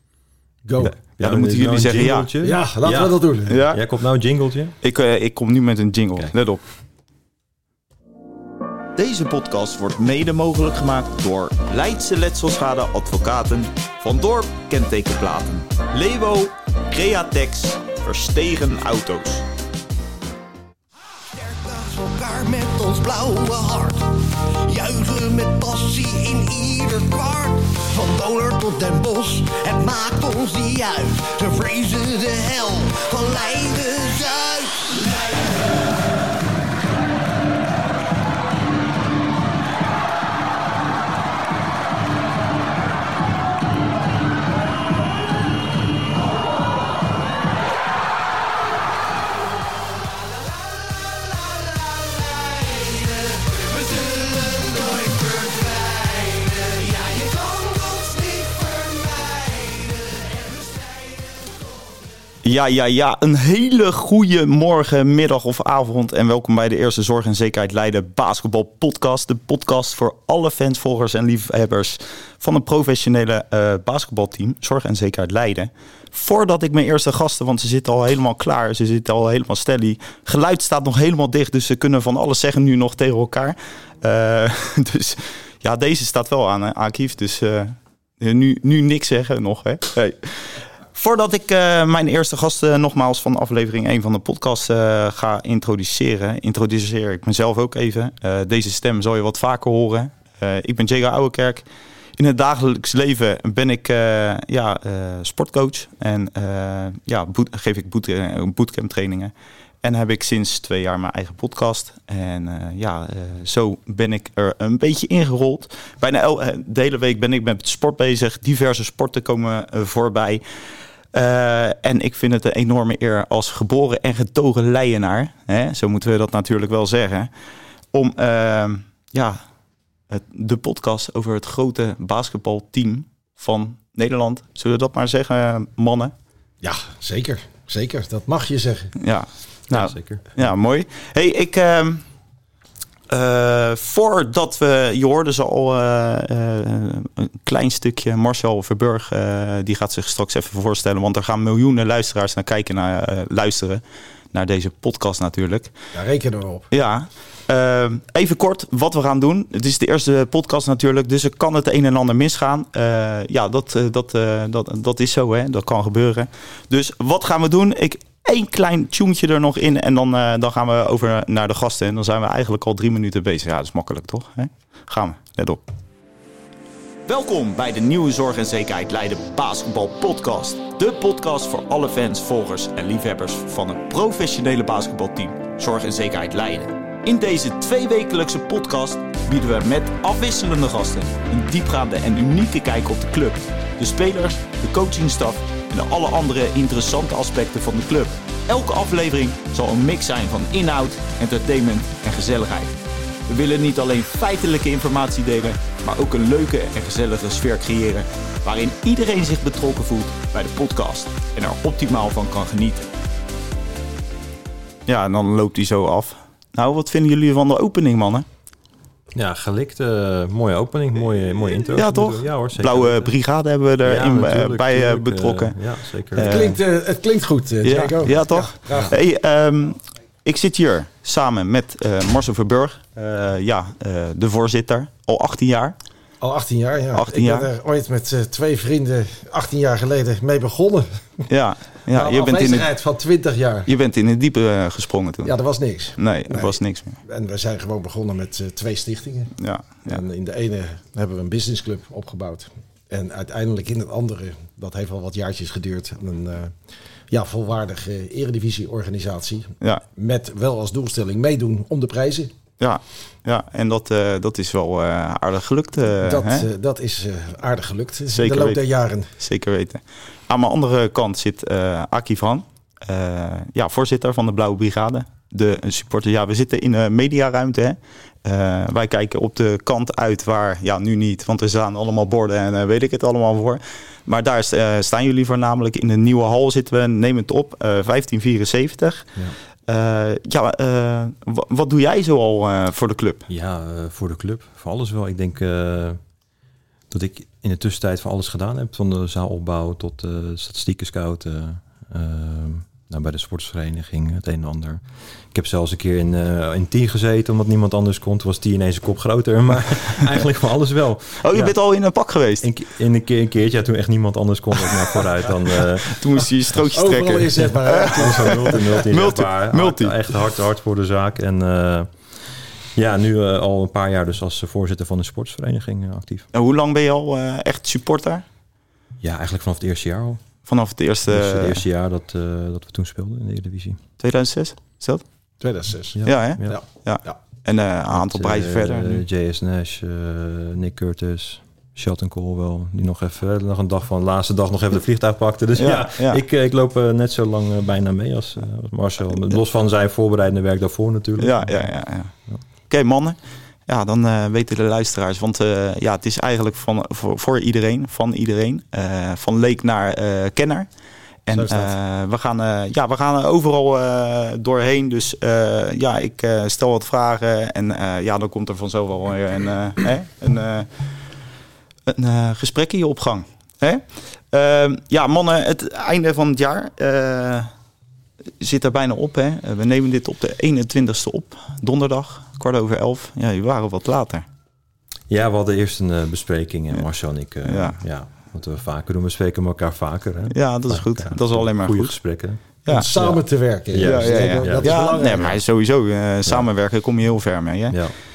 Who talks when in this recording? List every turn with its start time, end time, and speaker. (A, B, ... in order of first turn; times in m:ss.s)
0:00.6-0:01.0 A
0:00.8-0:04.7 B
0:01.2-0:02.3 C
0:02.4-0:03.6 A
0:03.5-0:03.8 C
0:04.8-0:06.6 C
0:09.0-0:19.5 C
0:21.4-0:35.0 D
0:25.9-0:26.2 A
0:52.4-1:01.1 D
1:02.4-1:41.6 C
1:42.2-1:49.3 C
1:49.8-2:00.4 C
2:01.1-2:07.3 C
2:07.9-2:09.4 C
2:10.1-2:16.1 C
2:16.6-2:18.9 A
2:19.0-2:22.0 C
2:19.7-2:20.2 B
2:23.1-2:33.8 C
2:34.3-2:35.7 C
2:35.9-2:36.7 A
2:36.7-2:55.6 C
2:57.0-3:22.8 C
3:23.3-3:32.9 C
3:34.9-3:38.2 C
3:39.1-3:43.1 B
3:41.7-3:45.6 C
3:43.8-3:46.6 B
3:46.2-3:46.6 C
3:46.2-3:48.9 A
3:47.6-3:55.8 C
3:56.2-4:01.3 A
3:56.9-3:57.5 C
4:01.3-4:02.7 C
4:01.9-4:03.7 A
4:03.7-4:05.3 C
4:05.2-4:16.5 A
4:06.0-4:07.0 C
4:09.4-4:10.0 C
4:17.1-4:22.3 A
4:22.6-4:26.5 C
4:26.0-4:29.1 A
4:28.1-4:28.6 C
4:29.2-4:49.1 C
4:49.7-4:53.3 C
4:53.3-4:56.0 B
4:56.9-5:11.5 B
5:11.2-5:12.5 C
5:12.4-5:16.0 B
5:15.8-5:20.0 C
5:16.6-5:18.9 A
5:17.8-5:21.9 B
5:22.7-5:26.2 B
5:26.3-5:28.2 C
5:29.0-5:30.2 B
5:30.4-5:31.6 C
5:31.1-5:33.8 B
5:34.0-5:35.0 C
5:35.4-5:37.1 A
5:36.0-5:36.6 B
5:36.0-5:39.0 C
5:37.9-5:51.7 B
5:45.6-5:46.2 C
5:51.2-5:52.1 C
5:52.7-6:00.7 C
6:01.2-6:10.7 C
6:01.3-6:01.7 A
6:11.9-6:17.5 C
6:18.4-6:24.2 C
6:25.1-6:33.2 B
6:27.4-6:27.8 C
6:30.3-6:32.0 C
6:32.7-6:35.3 A
6:33.7-6:35.4 B
6:33.8-6:37.8 C